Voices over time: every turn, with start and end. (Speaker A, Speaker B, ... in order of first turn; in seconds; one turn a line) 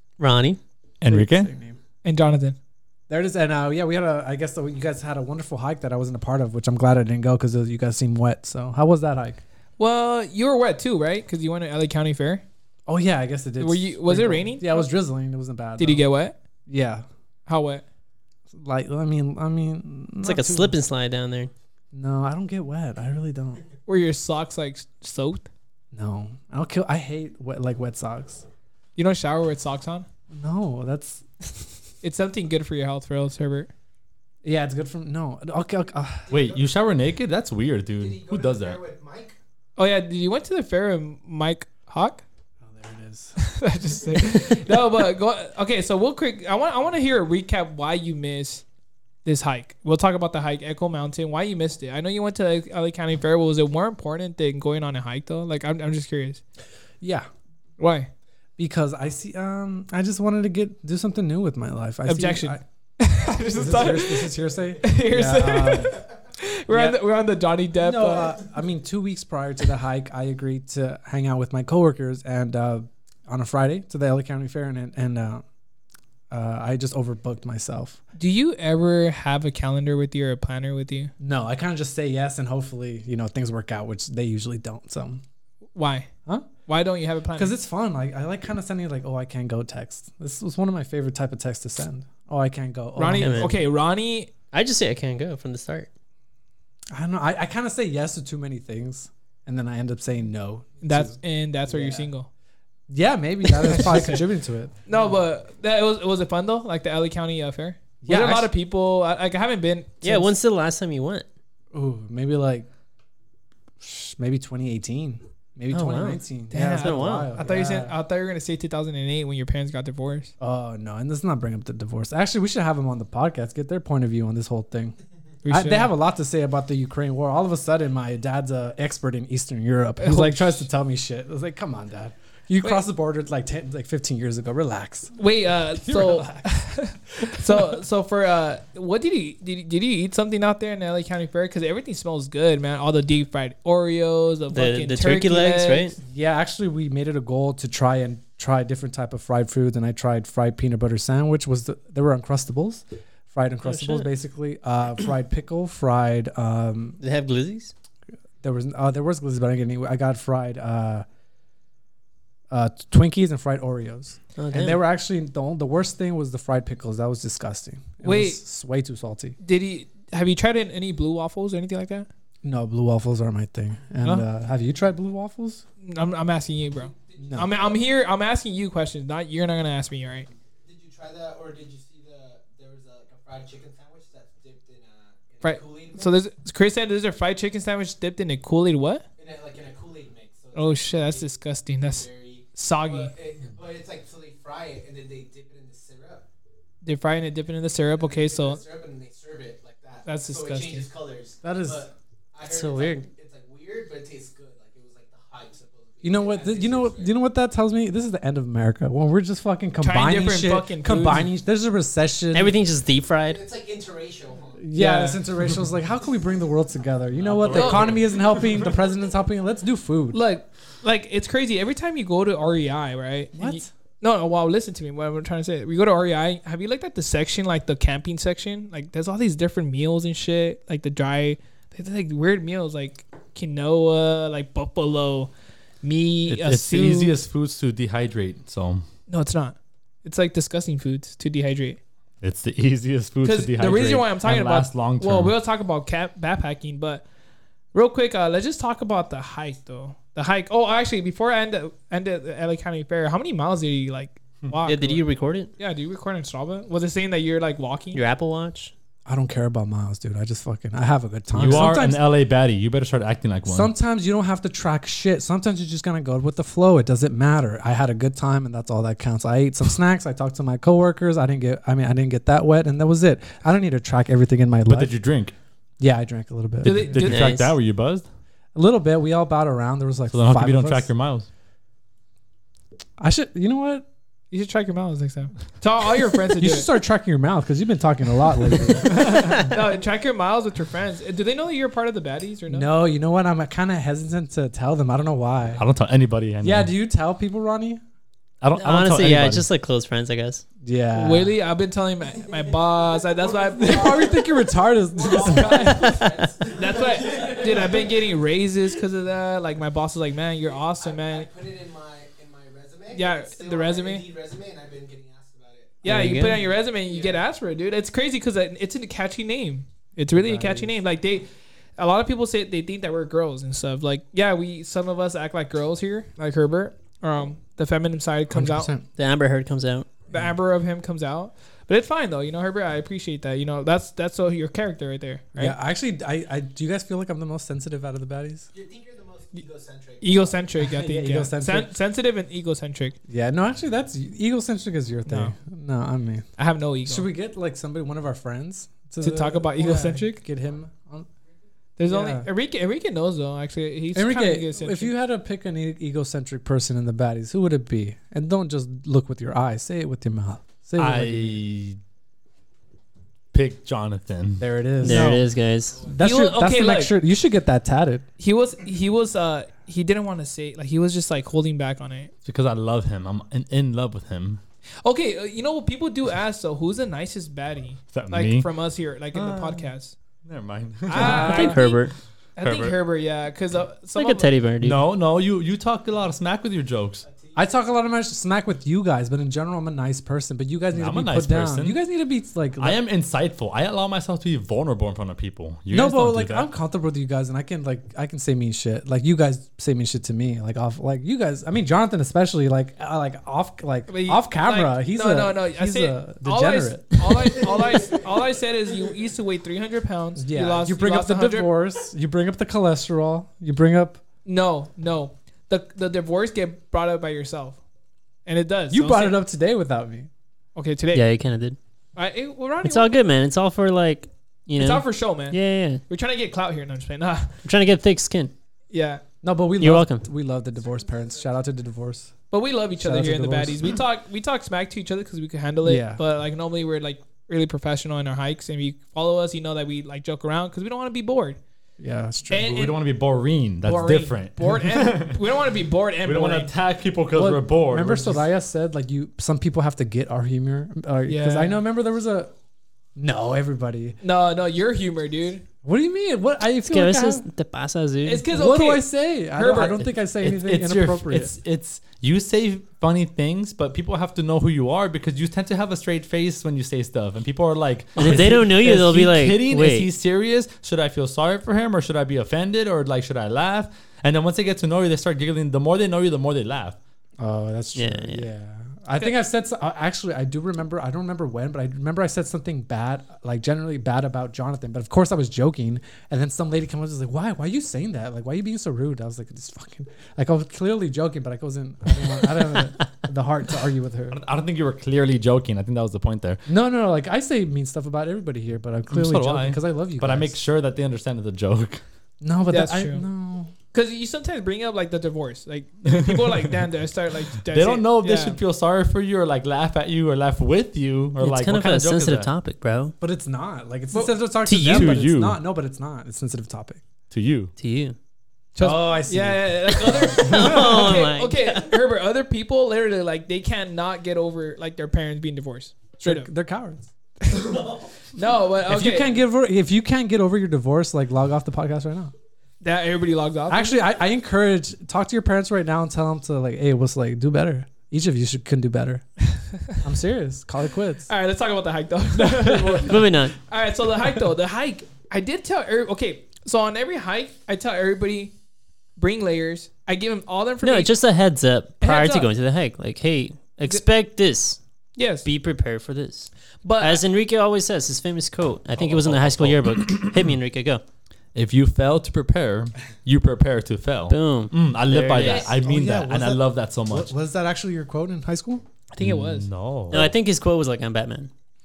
Speaker A: 0.2-0.6
Speaker B: 1.0-1.8
Speaker C: 1.0-1.5
Speaker D: 2.0-2.6
Speaker B: 3.1-9.4
Speaker D: 9.8-12.4
Speaker B: 12.9-16.1
Speaker D: 13.6-14.9
Speaker D: 15.8-16.4
Speaker B: 16.7-17.1
Speaker D: 17.5-17.8
Speaker B: 18.5-20.8
Speaker A: 20.2-21.5
Speaker B: 21.9-23.6
Speaker D: 23.9-25.5
Speaker B: 25.9-28.4
Speaker D: 29.0-30.1
Speaker B: 30.3-31.7
Speaker D: 32.0-33.7
Speaker B: 34.4-36.3
Speaker E: 36.3-36.6
Speaker C: 36.3-38.8
Speaker E: 38.0-39.4
Speaker D: 39.8-42.2
Speaker B: 42.6-43.4
Speaker D: 43.4-48.6
Speaker D: 49.2-56.4
Speaker B: 57.0-57.3
Speaker D: 57.8-58.1
Speaker B: 58.6-62.6
Speaker D: 62.1-68.4
Speaker B: 63.4-66.0
Speaker B: 66.7-67.0
Speaker B: 67.7-75.4
Speaker B: 76.3-78.0
Speaker D: 78.2-81.1
Speaker B: 81.2-85.2
Speaker D: 85.7-86.1
Speaker D: 86.6-87.6
Speaker B: 87.3-93.5
Speaker D: 93.0-94.3
Speaker A: 93.2-93.6
Speaker A: 94.5-95.9
Speaker B: 96.9-102.1
Speaker D: 100.8-102.3
Speaker B: 102.9-104.8
Speaker D: 103.5-104.2
Speaker D: 104.9-110.3
Speaker B: 108.0-108.5
Speaker A: 110.0-111.3
Speaker B: 111.7-112.7
Speaker B: 113.8-118.0
Speaker A: 115.7-117.3
Speaker D: 116.5-120.3
Speaker B: 120.4-125.0
Speaker D: 125.5-125.9
Speaker B: 125.5-135.2
Speaker D: 130.0-130.7
Speaker D: 135.2-146.0
Speaker B: 135.8-136.5
Speaker B: 137.2-137.6
Speaker A: 144.5-146.0
Speaker B: 146.0-157.0
Speaker A: 153.6-154.1
Speaker A: 157.0-157.7
Speaker B: 158.4-161.1
Speaker B: 162.5-169.4
Speaker A: 164.4-164.8
Speaker D: 168.0-168.4
Speaker D: 169.4-172.1
Speaker B: 172.4-175.6
Speaker D: 175.8-180.3
Speaker E: 177.1-177.6
Speaker B: 177.2-177.5
Speaker E: 180.7-186.1
Speaker D: 185.4-189.1
Speaker E: 189.2-196.3
Speaker D: 190.5-193.1
Speaker D: 196.8-198.6
Speaker E: 198.0-207.2
Speaker D: 200.1-200.9
Speaker B: 201.4-201.9
Speaker A: 202.4-203.1
Speaker B: 206.0-212.5
Speaker D: 209.8-211.3
Speaker A: 212.3-213.4
Speaker E: 213.3-214.6
Speaker B: 214.6-220.2
Speaker D: 214.8-215.2
Speaker A: 217.2-218.1
Speaker D: 217.5-218.0
Speaker D: 220.1-235.3
Speaker B: 223.3-223.7
Speaker D: 235.8-237.2
Speaker C: 236.3-238.8
Speaker D: 239.1-241.8
Speaker C: 242.2-245.3
Speaker D: 243.2-247.1
Speaker D: 247.7-255.0
Speaker A: 254.6-255.5
Speaker D: 255.6-258.0
Speaker A: 257.9-258.7
Speaker B: 259.1-262.1
Speaker C: 261.3-263.7
Speaker B: 263.5-274.9
Speaker C: 274.7-275.3
Speaker B: 275.8-277.0
Speaker D: 276.6-277.5
Speaker C: 276.6-278.1
Speaker A: 276.9-277.5
Speaker B: 278.6-280.9
Speaker C: 280.1-281.3
Speaker B: 283.0-283.9
Speaker D: 284.3-286.7
Speaker B: 286.4-289.5
Speaker D: 288.9-292.7
Speaker A: 289.1-289.4
Speaker B: 292.5-295.6
Speaker C: 295.6-296.7
Speaker B: 296.4-297.8
Speaker C: 298.4-299.4
Speaker A: 298.6-300.4
Speaker B: 300.6-301.4
Speaker D: 300.9-304.2
Speaker E: 302.2-304.4
Speaker B: 303.6-306.3
Speaker E: 304.9-308.1
Speaker D: 305.0-311.3
Speaker E: 310.4-316.2
Speaker D: 312.9-314.1
Speaker D: 315.8-328.7
Speaker A: 315.9-316.4
Speaker E: 316.8-317.2
Speaker B: 320.2-320.8
Speaker B: 328.3-328.9
Speaker A: 328.9-329.9
Speaker B: 330.1-330.4
Speaker D: 330.1-335.6
Speaker B: 335.4-338.5
Speaker E: 338.5-340.4
Speaker D: 340.0-343.0
Speaker B: 340.6-341.8
Speaker B: 343.1-346.3
Speaker D: 345.1-345.4
Speaker D: 346.4-347.1
Speaker B: 346.9-351.1
Speaker D: 349.0-350.2
Speaker D: 351.8-354.9
Speaker B: 351.9-352.3
Speaker B: 353.9-361.4
Speaker C: 360.8-361.8
Speaker C: 363.3-365.0
Speaker B: 364.4-368.1
Speaker A: 364.8-365.9
Speaker D: 366.0-367.0
Speaker D: 368.2-372.1
Speaker C: 372.2-374.4
Speaker D: 374.8-380.0
Speaker C: 377.9-378.5
Speaker C: 379.1-379.7
Speaker C: 380.2-381.5
Speaker D: 380.9-384.3
Speaker B: 380.9-381.6
Speaker A: 381.0-381.9
Speaker C: 382.4-382.8
Speaker A: 383.9-384.8
Speaker C: 384.6-387.1
Speaker E: 387.1-387.4
Speaker B: 387.4-392.8
Speaker C: 390.7-391.8
Speaker C: 392.6-396.5
Speaker B: 395.7-407.4
Speaker D: 403.9-411.5
Speaker E: 407.4-408.1
Speaker B: 410.2-414.0
Speaker D: 414.2-417.6
Speaker D: 418.2-419.2
Speaker B: 418.7-420.1
Speaker D: 420.6-421.1
Speaker A: 420.9-421.6
Speaker D: 422.0-423.0
Speaker A: 422.6-425.8
Speaker D: 424.5-427.4
Speaker A: 427.4-428.3
Speaker D: 428.7-429.0
Speaker B: 429.2-432.1
Speaker A: 429.6-430.1
Speaker D: 432.3-441.4
Speaker B: 432.8-433.7
Speaker B: 435.6-436.0
Speaker B: 441.8-442.6
Speaker D: 442.3-442.8
Speaker C: 442.4-445.5
Speaker D: 443.6-446.5
Speaker C: 446.0-448.2
Speaker B: 447.1-452.3
Speaker D: 451.1-451.6
Speaker B: 453.0-454.0
Speaker D: 454.0-455.4
Speaker B: 455.6-457.3
Speaker A: 456.6-458.3
Speaker D: 458.0-459.9
Speaker B: 458.3-461.3
Speaker C: 460.1-476.8
Speaker A: 468.0-469.9
Speaker B: 477.2-494.2
Speaker A: 477.7-478.3
Speaker C: 494.1-496.4
Speaker B: 496.5-500.4
Speaker C: 498.9-501.8
Speaker B: 502.2-503.5
Speaker D: 502.5-503.1
Speaker D: 503.7-508.4
Speaker C: 505.8-506.7
Speaker C: 507.5-512.3
Speaker A: 511.2-513.0
Speaker B: 513.0-516.8
Speaker D: 513.9-514.3
Speaker A: 514.5-514.9
Speaker C: 514.5-515.4
Speaker C: 517.1-517.5
Speaker A: 517.6-518.0
Speaker D: 518.5-526.3
Speaker B: 518.6-520.4
Speaker A: 519.9-521.8
Speaker B: 526.0-526.9
Speaker D: 527.3-529.1
Speaker B: 528.7-532.1
Speaker D: 532.6-533.8
Speaker B: 533.5-539.0
Speaker B: 539.7-541.1
Speaker D: 541.1-548.3
Speaker B: 542.2-542.9
Speaker A: 542.8-543.4
Speaker D: 549.0-550.9
Speaker A: 550.6-554.6
Speaker D: 551.8-552.3
Speaker D: 555.0-555.3
Speaker A: 555.2-560.8
Speaker D: 556.6-557.0
Speaker C: 558.8-560.3
Speaker C: 561.4-567.1
Speaker A: 564.1-565.5
Speaker D: 565.2-565.5
Speaker B: 565.5-568.6
Speaker D: 568.9-569.5
Speaker C: 569.0-570.1
Speaker A: 569.9-571.3